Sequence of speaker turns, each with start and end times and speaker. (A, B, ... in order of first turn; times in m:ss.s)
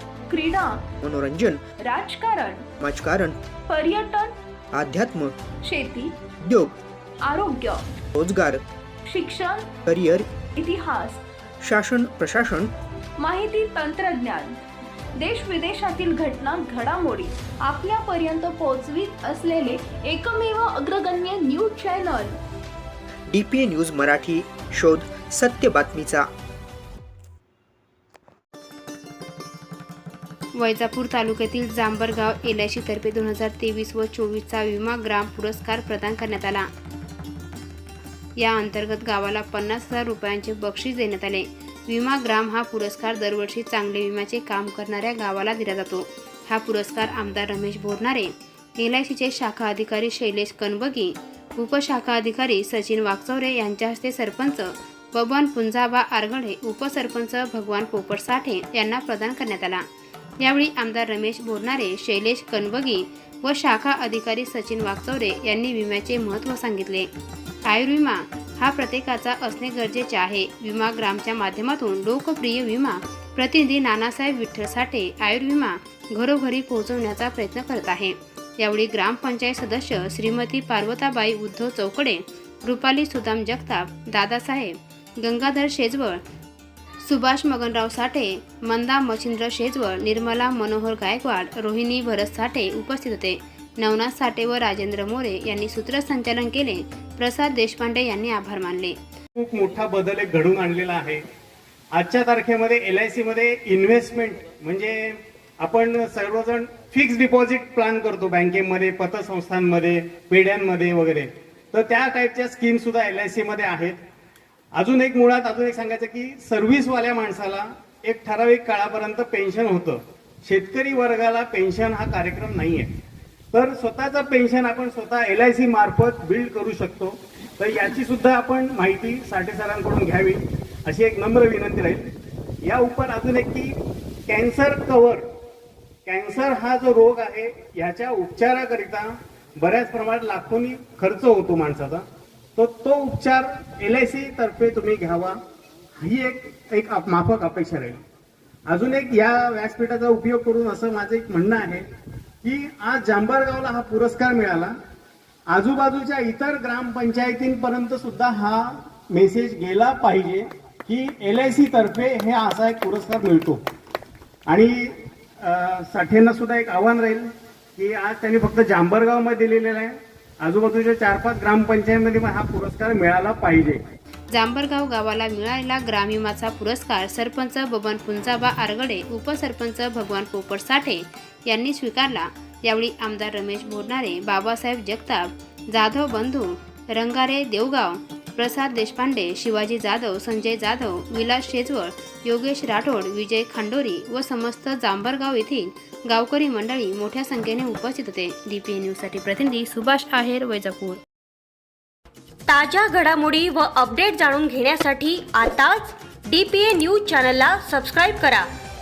0:00.3-0:00.9 A
0:01.0-0:01.6 B
0:01.9-0:02.7 A
0:02.8-0:03.4 B
0:03.7-0:04.4 A
0:04.7-0:05.4 B
0:05.7-0:06.1 A
0:06.4-0:06.8 B
0:07.3-0:08.0 A
0:08.2-0:08.7 B
0:09.1-0:09.7 A
0:09.9-0:10.3 B
0:10.6-0:11.2 A
0:11.6-0:12.7 B
0:13.2-0:14.6 A
0:15.2-0:22.3 A
0:23.3-0:26.3 B
0:30.6-0:36.7 C
0:38.4-0:59.8 C
1:00.4-1:07.1 C
1:07.7-1:26.2 C
1:27.0-1:39.0 C
1:39.4-1:41.2 D
1:41.9-1:54.0 D
1:54.8-2:02.9 D
2:03.5-2:12.1 D
2:12.6-2:13.8 D
2:14.3-2:15.2 D
2:16.1-2:22.0 D
2:22.6-2:25.4 D
2:26.0-2:28.0 D
2:28.7-2:31.9 D
2:32.4-2:34.7 D
2:35.5-2:43.6 D
2:44.5-2:53.8 D
2:54.3-3:21.0 C
3:22.5-3:28.5 E